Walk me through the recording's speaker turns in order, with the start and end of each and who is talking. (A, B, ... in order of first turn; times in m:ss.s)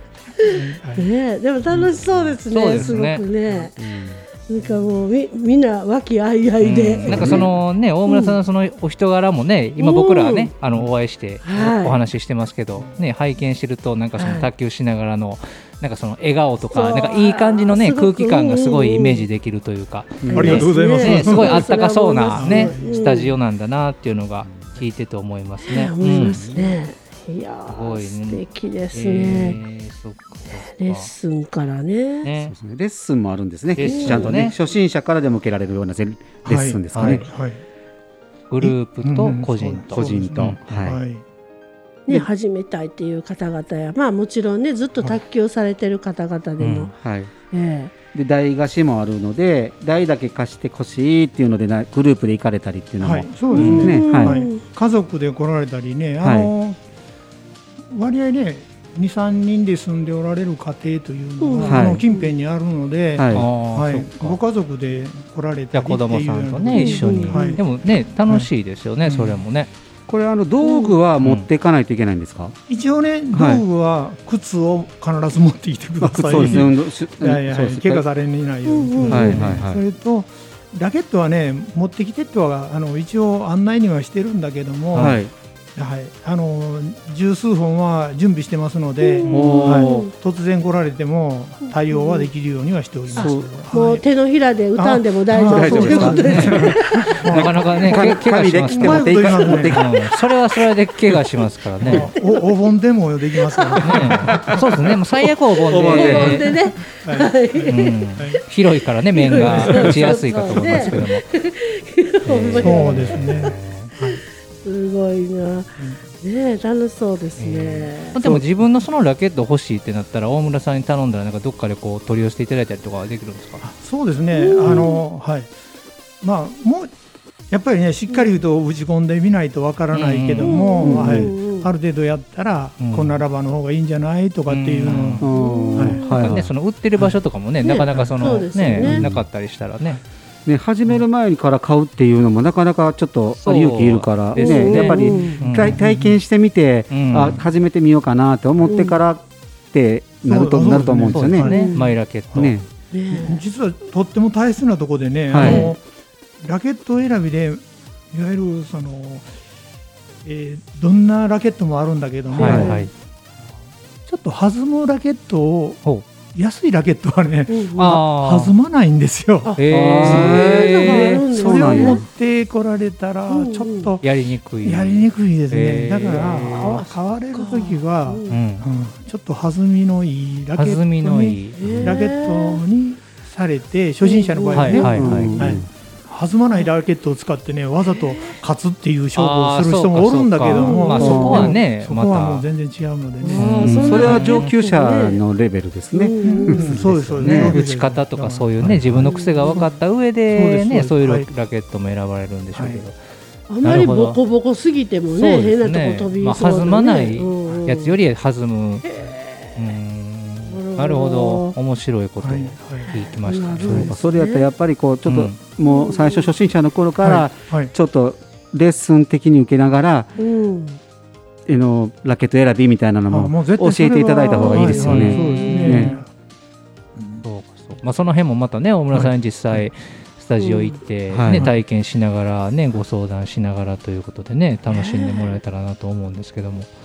0:00.4-0:03.8 A
0:00.5-0:01.1 B
0:01.7-0:02.0 B
0:02.4-0:03.2 C
0:03.8-0:04.2 D
0:04.4-0:07.5 A
0:06.6-0:26.5 C
0:07.1-0:07.5 B
0:07.1-0:07.4 D
0:08.1-0:08.4 A
0:09.8-0:10.5 A
0:11.4-0:12.0 A
0:14.2-0:14.5 A
0:16.7-0:19.2 A
0:20.2-0:20.6 D
0:20.3-0:23.4 A
0:20.3-0:21.7 B
0:22.4-0:23.1 B
0:25.6-0:29.6 A
0:26.2-0:26.7 D
0:27.7-0:31.1 C
0:30.6-0:32.3 A
0:32.2-0:32.5 C
0:32.4-0:37.3 D
0:33.8-0:34.6 C
0:33.8-0:34.4 A
0:36.4-0:37.6 B
0:36.9-0:37.3 C
0:38.5-0:40.6 C
0:38.6-0:41.2 B
0:40.0-0:41.0 D
0:42.1-0:46.9 A
0:46.6-0:46.9 C
0:46.9-0:47.3 D
0:47.5-0:47.9 A
0:48.1-0:54.4 D
0:53.0-0:56.8 B
0:53.5-0:54.6 A
0:56.2-0:56.5 D
0:57.9-1:08.5 B
1:01.4-1:02.3 A
1:01.7-1:02.0 D
1:03.2-1:03.5 D
1:03.3-1:04.4 C
1:05.7-1:09.7 C
1:06.7-1:07.6 A
1:09.0-1:09.4 B
1:10.1-1:12.6 D
1:10.6-1:11.0 A
1:12.7-1:25.2 B
1:13.3-1:13.6 D
1:16.0-1:18.0 D
1:18.7-1:19.4 A
1:19.1-1:19.8 D
1:19.1-1:19.4 C
1:24.9-1:25.2 C
1:25.0-1:25.3 D
1:25.8-1:34.0 B
1:29.0-1:30.1 A
1:29.3-1:30.1 D
1:31.9-1:32.3 A
1:33.1-1:33.6 D
1:33.2-1:37.2 A
1:34.8-1:39.8 B
1:35.3-1:36.7 D
1:36.1-1:36.6 C
1:37.2-1:40.0 D
1:37.3-1:42.1 C
1:41.8-1:44.6 B
1:42.0-1:42.7 A
1:43.5-1:43.8 A
1:43.8-1:46.5 C
1:44.0-1:44.8 D
1:45.7-1:46.5 D
1:45.9-1:48.0 A
1:46.9-1:48.4 B
1:47.7-1:51.3 C
1:49.2-1:53.3 A
1:49.3-1:51.0 B
1:52.2-1:53.9 C
1:52.5-1:54.2 B
1:54.0-1:58.4 A
1:57.4-2:03.6 C
2:03.6-2:05.5 B
2:04.3-2:05.0 A
2:06.2-2:06.9 B
2:07.5-2:16.0 B
2:09.9-2:10.5 C
2:10.4-2:11.7 A
2:10.8-2:11.3 D
2:12.8-2:13.2 C
2:14.5-2:15.3 C
2:15.2-2:16.5 D
2:15.3-2:16.4 A
2:16.1-2:20.0 C
2:17.6-2:19.0 A
2:17.9-2:18.5 B
2:18.8-2:19.2 D
2:20.5-2:31.5 D
2:23.3-2:25.8 C
2:24.4-2:25.4 A
2:25.4-2:26.2 B
2:26.9-2:27.4 C
2:28.6-2:29.0 A
2:30.2-2:32.6 B
2:31.1-2:32.5 C
2:31.4-2:31.9 A
2:32.4-2:32.7 D
2:32.9-2:33.4 A
2:33.1-2:35.8 B
2:35.3-2:35.7 D
2:35.4-2:35.7 A
2:36.4-2:39.3 B
2:40.2-2:42.7 B
2:42.4-2:42.9 C
2:42.4-2:42.7 D
2:42.4-2:42.9 A
2:44.0-2:45.8 B
2:46.3-2:49.6 B
2:47.5-2:48.0 A
2:47.8-2:48.5 C
2:49.4-2:52.0 A
2:49.6-2:51.2 C
2:49.7-2:52.0 D
2:51.2-2:54.0 B
2:53.3-2:54.0 A
2:54.0-2:56.8 C
2:54.6-3:14.2 B
2:56.2-2:58.4 A
2:58.3-2:58.7 C
3:00.6-3:01.9 C
3:01.6-3:02.6 A
3:04.0-3:05.4 A
3:04.6-3:05.6 C
3:05.0-3:05.7 D
3:07.9-3:08.4 A
3:09.2-3:12.5 C
3:10.5-3:11.5 A
3:11.0-3:11.6 D
3:13.2-3:15.2 A
3:13.4-3:14.5 C
3:13.6-3:17.6 D
3:15.9-3:16.7 A
3:16.2-3:19.7 B
3:16.8-3:23.0 C
3:19.0-3:19.7 A
3:20.3-3:21.3 B
3:22.5-3:22.8 B
3:23.5-3:28.0 A
3:23.6-3:24.2 C
3:25.1-3:28.9 C
3:28.8-3:29.8 A
3:29.6-3:33.9 C
3:30.5-3:31.6 A
3:32.2-3:32.9 B
3:32.8-3:34.5 A
3:33.7-3:40.1 D
3:35.1-3:35.4 C
3:35.6-3:36.3 A
3:37.0-3:37.7 B
3:40.2-3:40.8 A
3:41.5-3:46.0 D
3:43.1-3:46.1 B
3:44.3-3:44.9 A
3:44.7-3:46.0 C
3:47.0-3:47.2 B
3:47.2-3:56.7 C
3:48.9-3:49.6 B
3:50.4-3:50.8 A
3:51.1-3:51.5 D
3:51.3-3:51.6 B
3:54.7-3:55.4 A